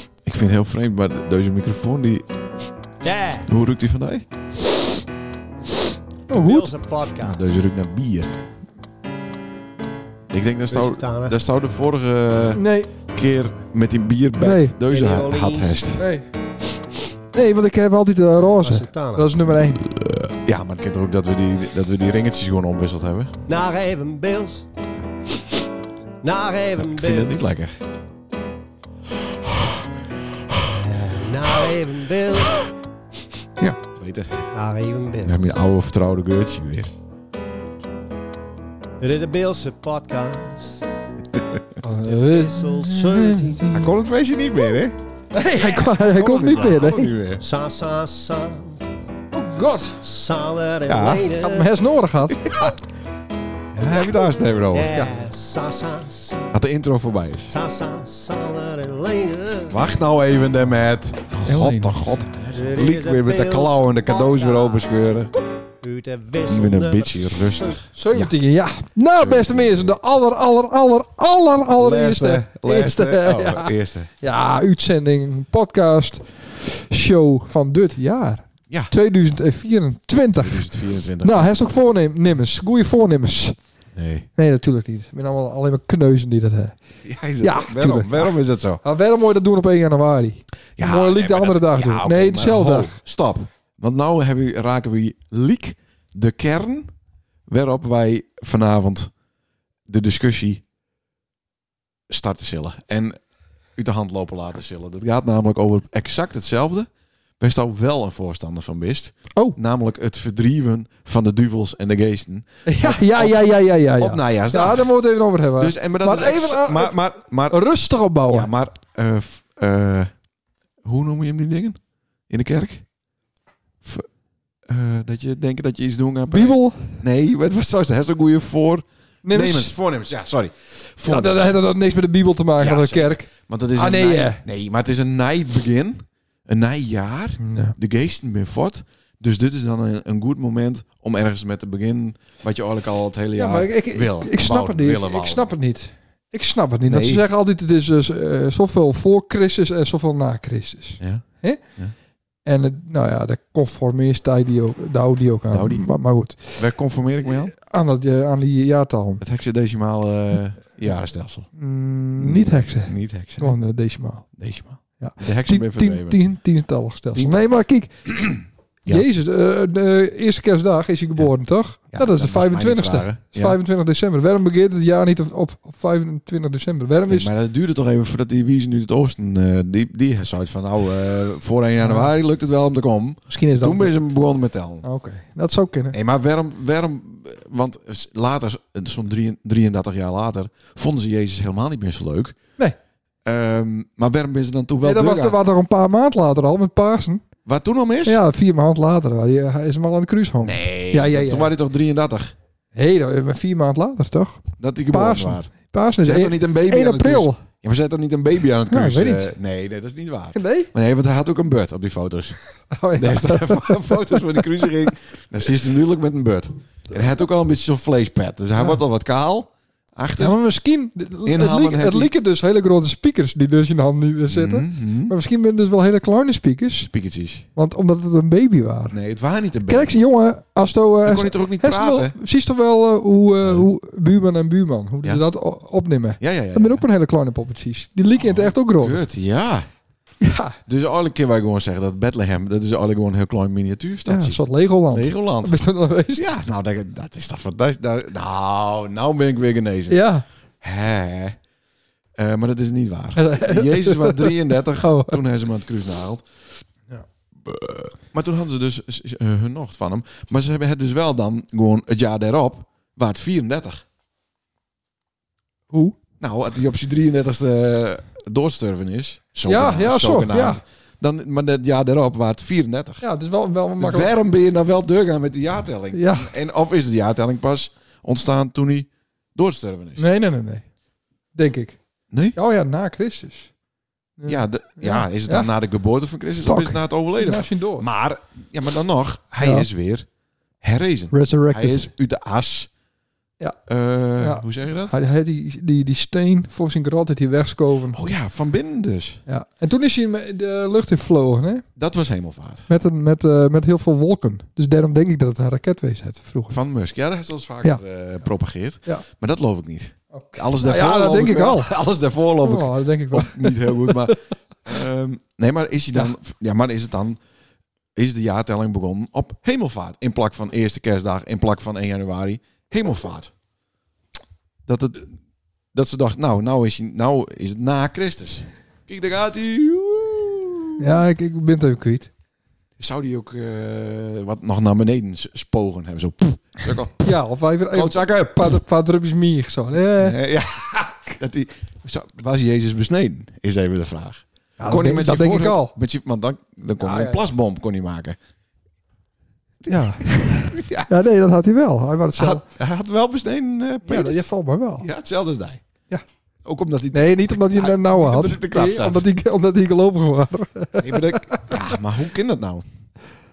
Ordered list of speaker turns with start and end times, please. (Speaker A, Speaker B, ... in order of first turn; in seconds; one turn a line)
Speaker A: 0.2-2.2
Speaker B: 3.0-3.5
Speaker A: 3.5-4.2
Speaker B: 6.3-7.5
Speaker C: 6.3-6.7
Speaker A: 7.2-8.3
Speaker A: 10.3-16.1
Speaker B: 10.7-11.4
Speaker C: 12.5-12.9
Speaker C: 14.4-14.8
Speaker B: 14.8-15.9
Speaker C: 16.0-16.2
Speaker C: 17.3-19.8
Speaker B: 18.6-19.3
Speaker A: 19.8-23.4
Speaker B: 23.5-24.7
Speaker B: 26.2-27.4
Speaker A: 26.8-27.8
Speaker B: 30.7-32.6
Speaker A: 33.6-34.5
Speaker B: 34.5-35.5
Speaker A: 35.2-36.9
Speaker B: 39.0-40.9
Speaker C: 41.8-43.9
Speaker B: 42.0-43.8
Speaker A: 43.7-45.0
Speaker C: 45.3-47.2
Speaker B: 45.5-48.8
Speaker A: 46.0-47.4
Speaker C: 49.3-50.0
Speaker B: 50.0-51.7
Speaker A: 50.9-51.3
Speaker C: 51.3-52.7
Speaker A: 52.4-52.8
Speaker A: 53.7-55.0
Speaker B: 53.8-56.5
Speaker C: 54.9-55.2
Speaker A: 56.5-57.5
Speaker B: 57.5-60.0
Speaker A: 59.7-65.3
Speaker C: 61.5-62.2
Speaker B: 62.5-65.2
Speaker B: 65.8-67.8
Speaker A: 66.5-68.3
Speaker C: 67.9-83.5
Speaker A: 69.2-70.0
Speaker A: 71.8-74.1
Speaker A: 80.4-81.5
Speaker A: 83.9-84.3
Speaker C: 84.4-86.8
Speaker A: 87.0-88.8
Speaker C: 87.4-92.9
Speaker A: 90.8-96.9
Speaker A: 97.5-99.1
Speaker A: 99.9-100.6
Speaker A: 102.1-103.2
Speaker A: 103.8-106.9
Speaker A: 107.4-114.9
Speaker C: 112.7-117.0
Speaker A: 115.6-117.6
Speaker C: 117.5-118.5
Speaker A: 118.3-120.1
Speaker A: 120.8-121.8
Speaker A: 122.3-122.8
Speaker A: 124.7-131.6
Speaker C: 126.3-126.9
Speaker C: 129.2-129.7
Speaker C: 131.0-134.4
Speaker A: 132.6-145.5
Speaker C: 137.4-137.7
Speaker C: 143.4-151.6
Speaker A: 146.8-147.2
Speaker A: 151.0-151.2
Speaker C: 152.4-156.7
Speaker A: 155.5-155.9
Speaker A: 156.5-157.5
Speaker C: 157.2-159.2
Speaker A: 159.2-161.5
Speaker C: 161.6-164.3
Speaker A: 162.2-163.5
Speaker A: 164.4-166.2
Speaker C: 165.0-168.2
Speaker A: 167.1-167.4
Speaker A: 168.1-169.1
Speaker C: 168.9-177.3
Speaker A: 171.9-173.6
Speaker A: 177.1-184.8
Speaker C: 181.8-182.1
Speaker C: 183.3-184.0
Speaker C: 184.8-185.9
Speaker A: 185.9-192.4
Speaker A: 193.2-195.4
Speaker C: 194.8-197.2
Speaker A: 197.4-198.2
Speaker C: 198.1-201.5
Speaker A: 200.4-202.3
Speaker C: 202.7-207.4
Speaker A: 204.6-205.5
Speaker A: 206.0-212.4
Speaker C: 208.7-209.3
Speaker C: 210.3-210.7
Speaker C: 212.7-214.9
Speaker A: 212.9-220.4
Speaker C: 220.2-226.9
Speaker A: 221.2-222.1
Speaker A: 224.3-225.1
Speaker A: 226.9-227.4
Speaker C: 227.6-228.9
Speaker A: 228.9-229.9
Speaker C: 229.7-239.0
Speaker A: 231.0-232.1
Speaker A: 236.2-236.8
Speaker A: 238.2-239.7
Speaker C: 240.2-240.6
Speaker A: 240.7-244.4
Speaker C: 244.1-246.3
Speaker A: 244.9-250.0
Speaker C: 249.9-250.2
Speaker A: 250.6-251.4
Speaker A: 252.2-256.2
Speaker C: 253.2-255.2
Speaker A: 257.4-263.8
Speaker A: 266.2-273.0
Speaker C: 269.4-270.6
Speaker C: 273.0-274.1
Speaker A: 273.8-280.1
Speaker C: 275.9-276.3
Speaker C: 280.0-280.6
Speaker C: 281.3-281.8
Speaker A: 282.1-282.4
Speaker C: 282.3-283.5
Speaker C: 284.2-285.5
Speaker A: 284.2-290.1
Speaker C: 286.4-287.9
Speaker C: 289.4-289.7
Speaker A: 290.6-292.7
Speaker C: 291.1-291.9
Speaker A: 293.7-294.9
Speaker C: 294.2-298.0
Speaker A: 297.9-299.2
Speaker C: 299.3-301.6
Speaker A: 301.8-302.7
Speaker C: 302.7-306.6
Speaker A: 306.5-317.2
Speaker C: 310.1-311.7
Speaker C: 312.4-314.1
Speaker A: 317.9-323.3
Speaker A: 324.6-325.1
Speaker A: 325.7-330.9
Speaker C: 330.8-332.1
Speaker A: 332.8-337.1
Speaker C: 337.0-340.2
Speaker A: 337.7-338.6
Speaker A: 340.0-348.2
Speaker C: 344.6-345.7
Speaker C: 346.8-347.2
Speaker A: 349.6-350.9
Speaker C: 349.6-352.4
Speaker A: 352.1-354.2
Speaker C: 353.9-354.9
Speaker A: 354.8-355.6
Speaker A: 356.4-359.0
Speaker C: 356.9-361.6
Speaker A: 360.8-362.6